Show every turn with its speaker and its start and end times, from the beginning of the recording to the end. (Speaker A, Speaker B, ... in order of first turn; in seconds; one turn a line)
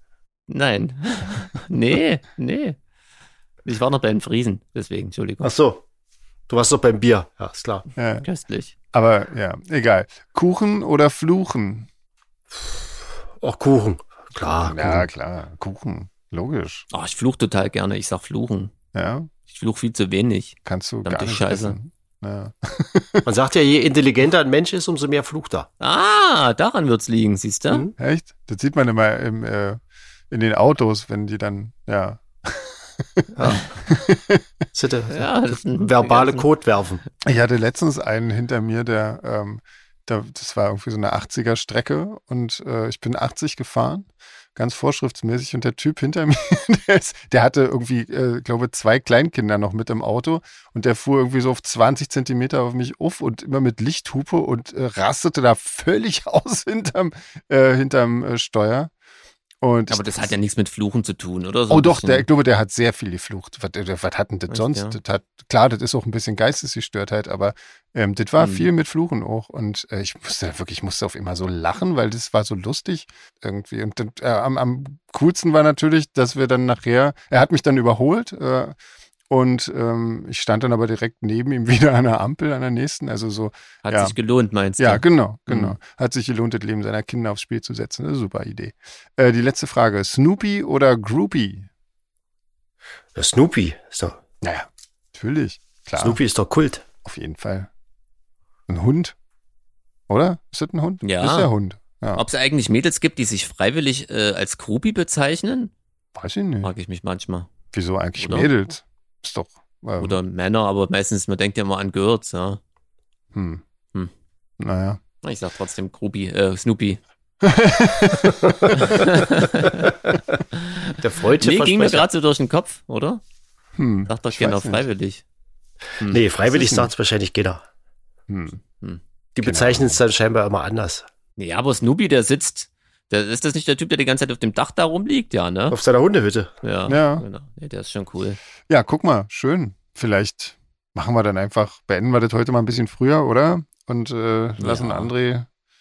Speaker A: 0.5-2.8
Speaker A: 3.6-5.5
Speaker B: 5.4-5.8
Speaker B: 6.5-7.9
Speaker C: 8.0-8.2
Speaker A: 8.2-8.7
Speaker C: 8.9-11.9
Speaker B: 13.4-15.1
Speaker C: 14.6-16.9
Speaker A: 16.9-18.7
Speaker C: 18.9-19.3
Speaker A: 19.5-21.8
Speaker C: 20.6-23.2
Speaker B: 23.2-25.7
Speaker A: 25.8-27.8
Speaker C: 28.0-34.4
Speaker B: 33.4-33.6
Speaker B: 34.7-37.0
Speaker A: 35.1-36.5
Speaker C: 37.2-58.9
Speaker C: 59.6-60.3
Speaker A: 59.9-62.3
Speaker C: 61.7-78.7
Speaker A: 64.5-65.0
Speaker A: 68.4-68.7
Speaker C: 79.3-84.1
Speaker A: 83.8-85.8
Speaker C: 84.8-91.7
Speaker B: 93.2-94.2
Speaker C: 94.4-96.2
Speaker B: 96.0-96.8
Speaker C: 97.0-97.7
Speaker C: 98.7-99.2
Speaker C: 100.1-102.2
Speaker A: 101.0-101.5
Speaker A: 102.2-105.7
Speaker C: 106.2-106.7
Speaker A: 106.6-107.5
Speaker C: 107.7-110.2
Speaker A: 108.2-108.5
Speaker A: 110.0-112.6
Speaker C: 113.3-113.6
Speaker C: 114.6-115.0
Speaker A: 115.2-117.0
Speaker C: 117.4-119.0
Speaker B: 118.4-118.7
Speaker A: 118.7-120.0
Speaker A: 120.5-123.2
Speaker B: 121.0-122.1
Speaker C: 123.8-124.8
Speaker A: 124.1-125.2
Speaker A: 126.0-126.9
Speaker B: 126.1-127.6
Speaker C: 128.3-128.6
Speaker B: 129.3-131.0
Speaker C: 129.4-130.0
Speaker A: 131.4-135.8
Speaker B: 135.7-136.5
Speaker A: 136.6-138.4
Speaker C: 136.9-137.2
Speaker C: 138.7-145.5
Speaker A: 144.6-145.1